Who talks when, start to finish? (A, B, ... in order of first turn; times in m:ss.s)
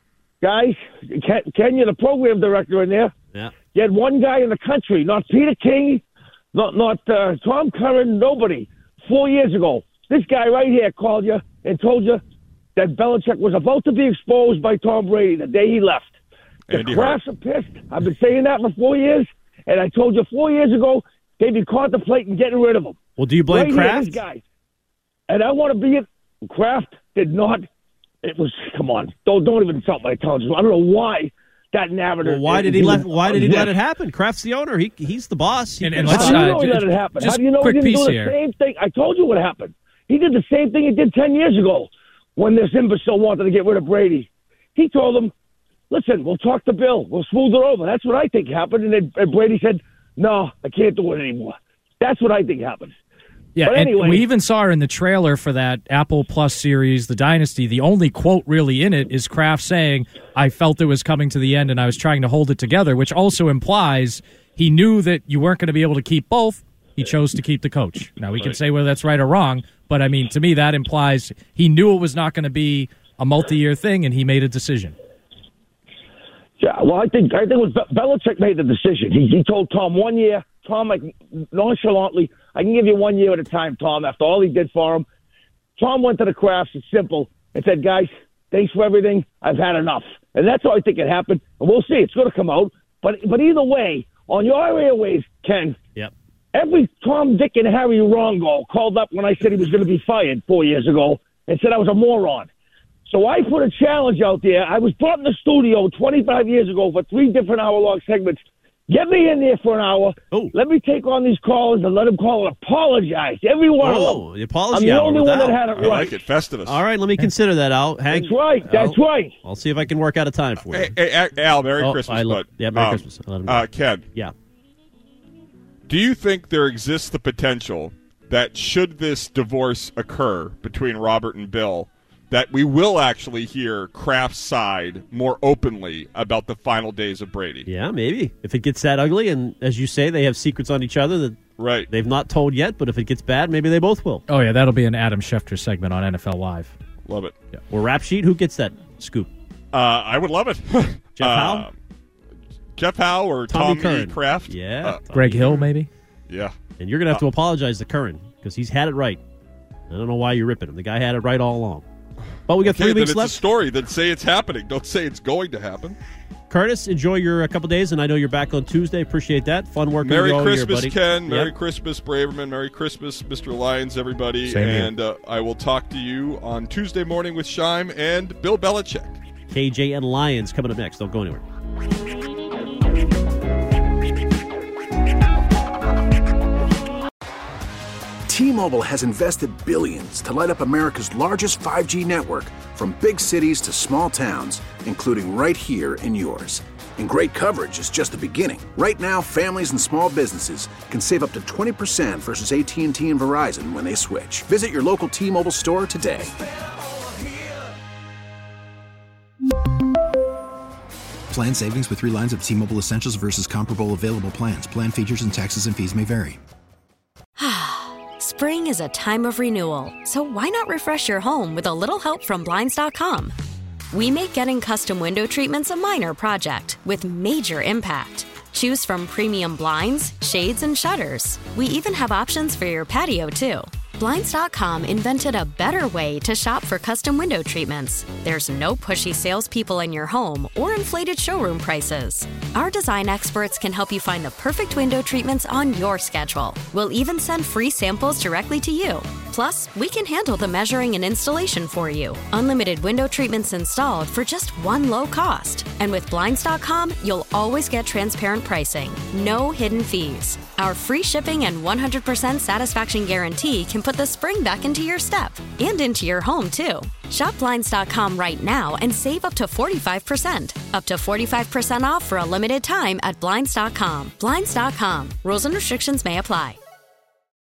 0:00.4-0:03.1 A
0:03.8-0:06.0 A
0:06.5-0:12.2 A
0:12.8-0:16.1 A
0:16.7-0:17.2 B
0:16.7-0:23.0 A
0:23.2-0:24.2 C
0:23.5-0:24.4 A
0:25.3-0:27.7 A
0:28.2-0:33.7 A
0:32.2-0:36.6 C
0:33.0-0:33.6 D
0:35.8-0:38.4 D
0:36.0-0:45.3 A
0:45.9-0:52.9 A
0:53.6-1:15.0 D
0:53.6-0:54.2 A
1:16.6-1:25.0 A
1:25.8-1:35.8 A
1:36.5-1:42.5 A
1:43.1-1:54.2 A
1:53.8-1:55.9 C
1:54.7-1:56.2 A
1:55.7-1:56.8 B
1:56.7-2:01.0 C
1:58.1-1:59.3 A
2:00.6-2:04.1 B
2:01.8-2:04.3 C
2:05.9-2:17.7 B
2:17.7-2:24.2 C
2:21.6-2:21.9 B
2:24.3-2:26.8 D
2:27.1-2:27.4 B
2:27.7-2:29.3 C
2:29.7-2:31.8 B
2:31.2-2:31.7 C
2:32.8-2:35.6 B
2:33.5-2:35.6 C
2:35.1-2:35.9 D
2:36.3-2:36.6 B
2:36.8-2:39.2 C
2:39.9-2:41.8 C
2:42.5-2:43.4 C
2:42.6-2:46.0 B
2:46.5-2:51.5 C
2:50.0-2:59.2 B
2:54.5-2:54.9 D
2:59.5-3:01.4 C
3:08.3-3:26.3 E
3:31.3-3:36.4 F
3:37.4-3:43.3 G
3:43.9-4:36.6 G